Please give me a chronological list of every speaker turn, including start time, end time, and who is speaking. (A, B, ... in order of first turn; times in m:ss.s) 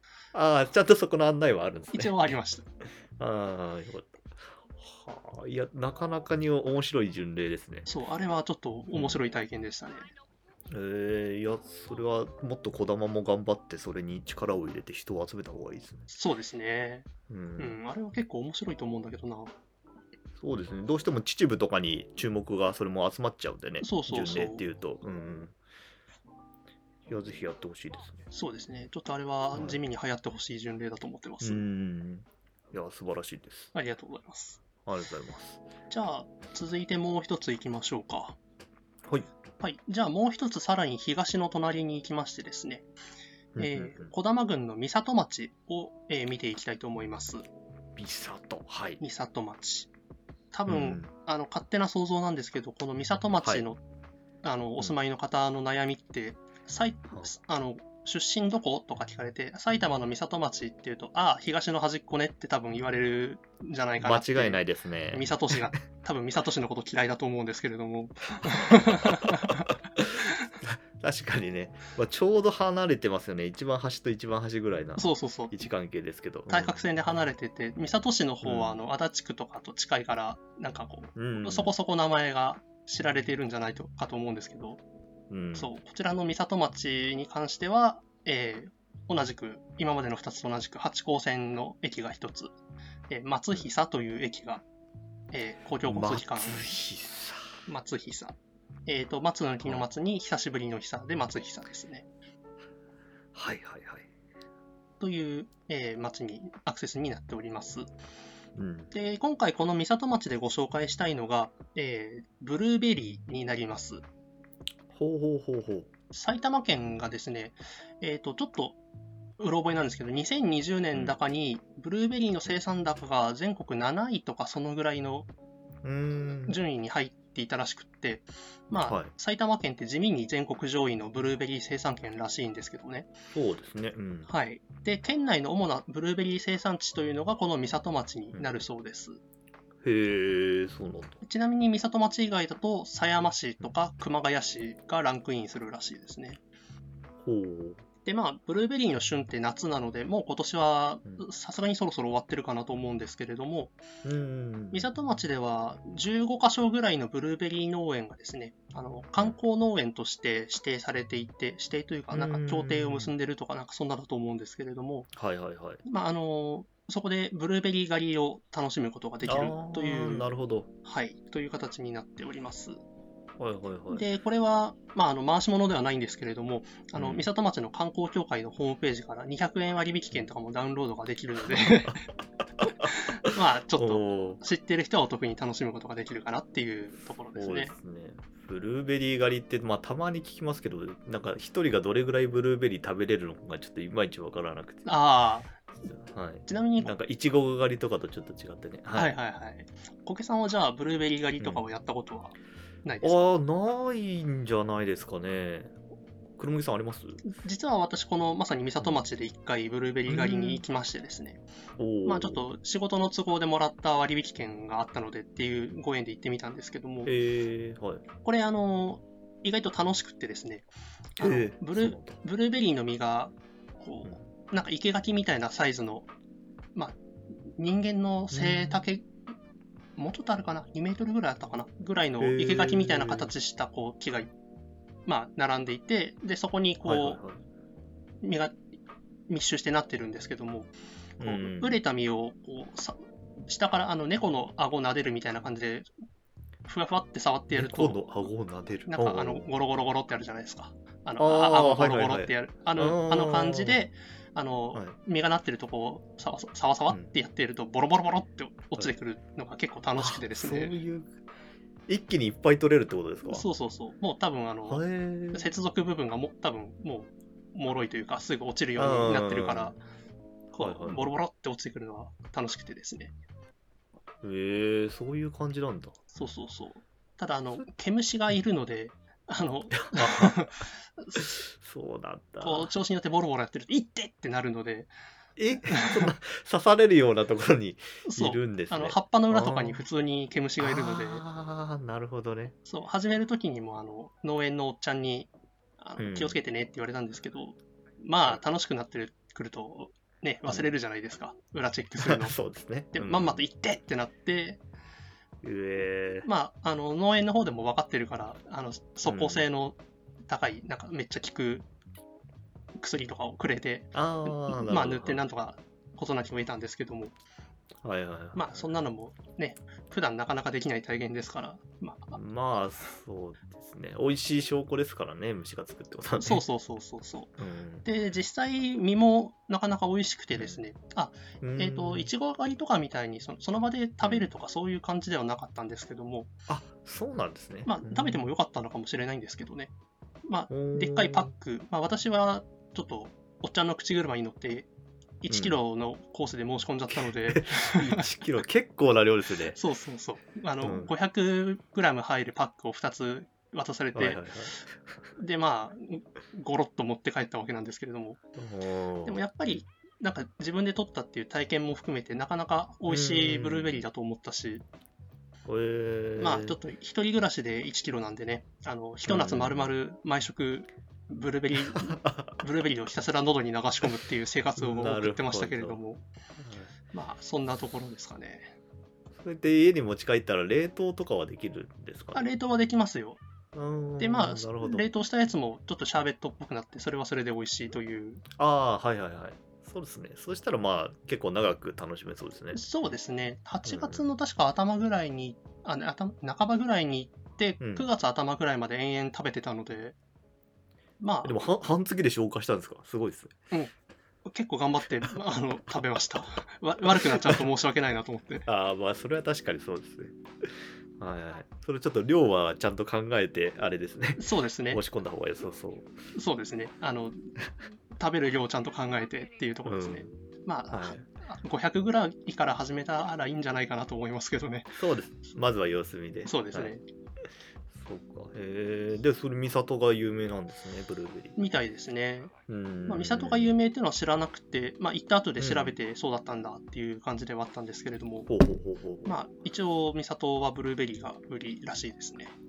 0:00.3-0:02.1 A
0:01.9-0:02.6 B
0:03.2-0:07.9 A
0:07.9-0:10.1 B
0:08.9-0:09.2 A
0:10.7-0:16.1 A
0:16.1-0:17.1 B
0:17.3-0:17.8 A
0:17.6-0:19.5 B
0:20.4-0:25.6 A
0:23.8-0:24.6 B
0:27.1-0:28.2 A
0:28.3-0:31.6 B
0:31.4-0:33.7 A
0:33.7-0:34.6 B
0:34.8-0:35.6 A
0:35.9-0:38.4 B
0:39.0-0:39.3 A
0:39.6-0:42.9 B
0:43.5-0:44.1 A
0:43.6-0:47.4 B
0:48.0-0:49.0 A
0:49.0-0:49.9 B
0:50.5-0:53.8 B
0:50.7-0:51.1 A
0:54.4-1:09.7 B
1:04.0-1:05.3 A
1:08.5-1:16.8 A
1:15.0-1:15.5 B
1:16.5-1:24.8 B
1:18.4-1:18.8 A
1:21.1-1:21.7 A
1:25.3-1:25.7 A
1:25.5-1:32.5 B
1:33.1-1:34.6 B
1:35.3-1:36.7 B
1:35.8-1:37.5 A
1:37.7-1:42.1 B
1:43.3-1:44.1 A
1:45.0-1:47.8 B
1:48.6-1:48.9 A
1:48.9-1:54.0 B
1:54.9-1:55.9 A
1:56.1-1:58.8 B
1:59.4-2:05.3 B
2:05.8-2:06.6 A
2:06.4-2:13.1 B
2:08.8-2:09.1 A
2:13.3-2:14.3 A
2:14.3-2:19.2 B
2:19.8-2:21.2 A
2:21.2-2:26.4 B
2:27.2-2:27.8 A
2:28.0-2:33.8 B
2:34.0-2:34.9 A
2:34.7-2:45.1 B
2:42.1-2:43.1 A
2:45.1-2:45.8 A
2:45.8-2:50.2 B
2:49.3-2:50.7 A
2:50.8-2:52.8 B
2:53.4-2:54.1 A
2:53.9-3:02.1 B
2:57.0-2:57.3 A
3:01.6-3:01.9 A
3:02.6-3:02.9 A
3:02.6-3:07.7 B
3:03.8-3:04.4 A
3:07.3-3:14.9 A
3:14.8-3:15.5 B
3:15.9-3:19.1 A
3:16.5-3:16.9 B
3:18.9-3:23.2 B
3:21.4-3:21.6 A
3:23.0-3:25.7 A
3:26.4-3:27.2 A
3:27.2-3:31.4 B
3:30.1-3:30.6 A
3:31.8-3:32.4 A
3:32.0-3:37.1 B
3:37.0-3:38.0 A
3:38.2-3:40.7 B
3:41.2-3:42.2 A
3:41.2-3:46.1 B
3:47.5-3:49.1 B
3:48.3-3:48.8 A
3:50.0-3:54.3 B
3:52.2-3:53.3 A
3:55.1-3:57.2 B
3:56.8-3:57.4 A
3:58.2-3:58.6 B
3:59.3-4:05.9 B
4:01.2-4:01.8 A
4:06.6-4:08.0 B
4:07.5-4:09.5 A
4:08.9-4:20.8 B
4:11.2-4:13.8 A
4:20.0-4:21.1 A
4:21.9-4:23.4 A
4:23.2-4:29.8 B
4:24.7-4:25.5 A
4:28.8-4:29.7 A
4:30.5-4:31.1 A
4:30.5-4:33.1 B
4:34.2-4:36.0 A
4:36.1-4:41.4 B
4:39.9-4:40.4 A
4:41.2-4:42.7 A
4:42.4-4:44.9 B
4:45.4-4:49.8 A
4:45.7-4:46.1 B
4:48.1-4:51.2 B
4:50.6-4:52.5 A
4:52.6-5:02.3 B
4:56.0-4:56.4 A
5:02.0-5:03.4 A
5:02.9-5:04.6 B
5:05.4-5:06.3 A
5:06.2-5:11.7 B
5:09.0-5:09.4 A
5:12.8-5:17.1 B
5:13.9-5:15.2 A
5:17.8-5:18.7 A
5:18.3-5:22.2 B
5:22.1-5:26.4 A
5:26.2-5:36.3 B
5:27.4-5:27.8 A
5:31.4-5:32.1 A
5:34.0-5:34.3 A
5:36.5-5:38.2 A
5:37.7-5:39.7 B
5:40.3-5:44.7 B
5:40.5-5:41.3 A
5:45.2-5:48.0 B
5:45.3-5:45.6 A
5:47.3-5:49.6 A
5:49.5-5:54.6 B
5:50.6-5:50.9 A
5:53.9-5:54.5 A
5:55.1-5:58.2 B
5:58.4-5:59.2 A
5:59.0-6:04.6 B
6:02.9-6:03.8 A
6:05.4-6:06.6 A
6:06.2-6:16.0 B
6:09.1-6:09.7 A
6:11.7-6:12.4 A
6:14.6-6:15.8 A
6:16.4-6:16.7 A
6:16.9-6:18.5 B
6:19.2-6:22.2 A
6:22.1-6:23.2 B
6:23.5-6:24.9 A
6:24.0-6:28.2 B
6:28.4-6:32.6 A
6:32.5-6:40.0 B
6:33.6-6:34.0 A
6:37.6-6:37.8 A
6:41.0-6:41.3 B
6:41.2-6:43.3 A
6:44.2-6:48.4 B
6:47.0-6:47.4 A
6:48.4-6:55.9 A
6:54.2-6:54.8 B
6:56.1-6:57.3 B
6:58.0-7:04.8 B
6:59.6-7:00.1 A
7:00.7-7:01.0 A
7:04.7-7:06.8 A
7:06.3-7:06.8 B
7:07.7-7:11.4 A
7:11.4-7:12.3 B
7:12.5-7:13.5 A
7:12.9-7:18.3 B
7:15.4-7:15.7 A
7:18.3-7:19.1 A
7:19.0-7:22.3 B